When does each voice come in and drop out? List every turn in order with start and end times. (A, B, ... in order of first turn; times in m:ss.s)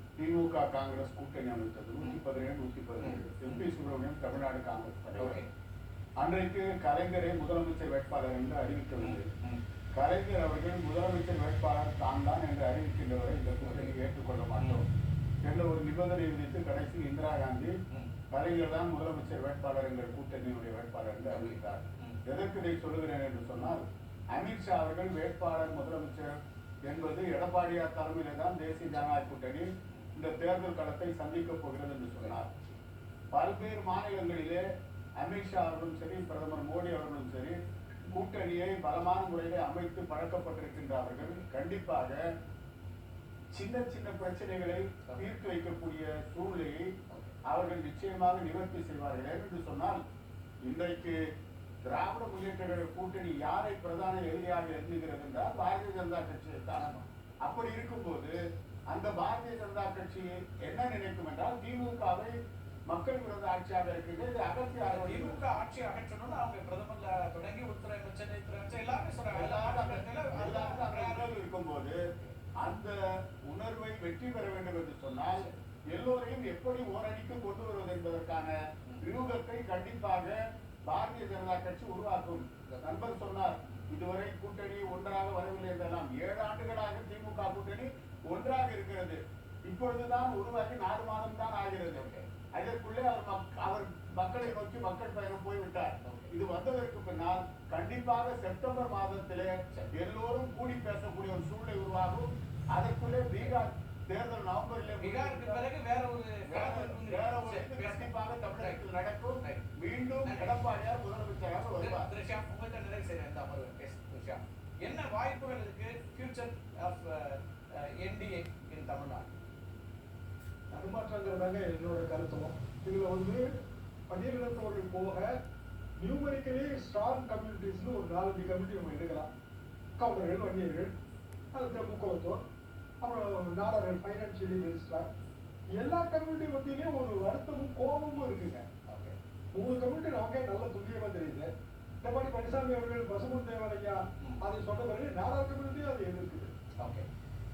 0:00.2-0:05.4 A
0:03.0-0:03.6 B
0:05.2-0:05.4 B
0:06.2-0:09.3 A
0:09.0-0:09.6 B
0:10.0-0:14.9 A
0:13.6-0:14.0 B
0:15.4-0:17.7 A
0:18.3-0:26.3 A
0:21.3-0:22.2 B
0:26.8-0:32.5 A
0:33.3-0:34.6 A
0:35.2-0:42.2 A
0:43.5-0:46.8 A
0:47.1-0:47.4 B
0:47.5-0:50.0 A
0:50.6-0:51.2 A
0:51.9-0:56.9 A
0:56.8-0:57.0 B
0:57.4-0:58.3 A
0:58.9-1:02.3 A
1:02.9-1:05.5 A
1:04.8-1:11.3 B
1:09.3-1:12.0 A
1:12.6-1:12.9 A
1:13.5-1:45.7 A
1:22.7-1:23.1 B
1:31.9-1:32.3 B
1:36.0-1:36.3 B
1:45.0-1:48.8 B
1:46.4-1:52.1 A
1:49.4-1:49.7 B
1:50.2-1:50.6 B
1:51.8-1:59.3 B
2:00.7-2:03.4 C
2:04.1-2:05.3 C
2:06.0-2:09.3 C
2:10.0-2:10.9 C
2:11.5-2:12.4 C
2:13.0-2:15.1 C
2:15.8-2:18.7 C
2:18.8-2:19.2 B
2:19.5-2:21.5 C
2:22.0-2:26.5 C
2:26.8-2:27.0 B